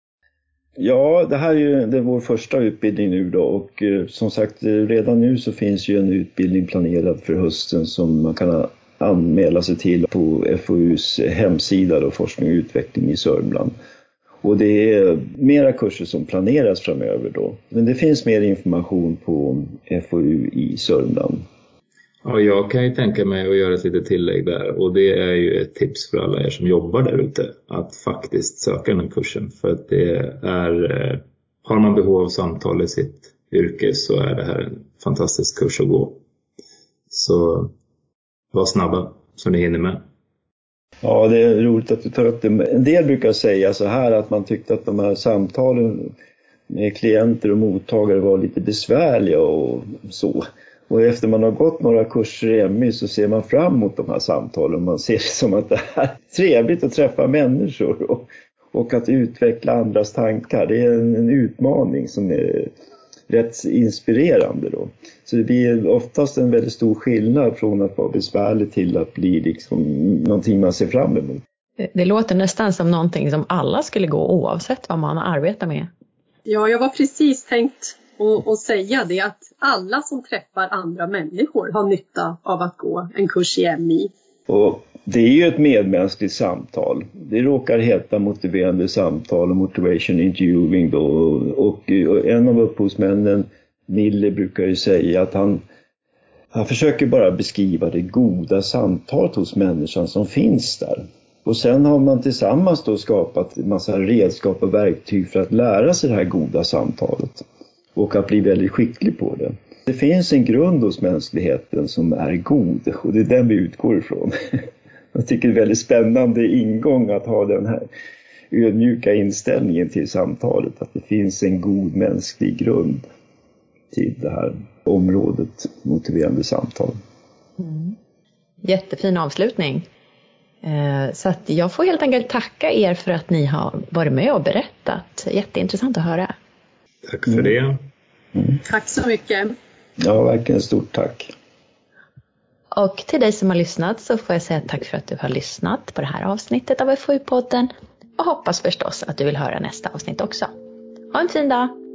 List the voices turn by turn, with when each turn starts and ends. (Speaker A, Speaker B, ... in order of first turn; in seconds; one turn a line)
Speaker A: 0.8-13.7
Speaker A: 14.4-21.4
Speaker B: 22.2-36.2
Speaker B: 37.1-37.7
Speaker B: 38.5-40.0
Speaker A: 41.0-46.1
Speaker A: 46.7-62.7
Speaker A: 63.3-71.4
Speaker C: 71.8-75.9
Speaker D: 76.5-84.1
Speaker A: 84.5-95.6
Speaker A: 96.5-107.4
Speaker A: 107.9-114.3
Speaker A: 115.1-117.8
Speaker A: 118.5-123.0
Speaker A: 123.9-127.0
Speaker C: 127.6-128.0
Speaker C: 128.6-129.8
Speaker C: 130.6-136.3
Speaker B: 137.0-137.8
Speaker D: 138.6-139.5
Speaker A: 140.0-141.3
Speaker C: 142.7-150.5
Speaker C: 151.1-151.7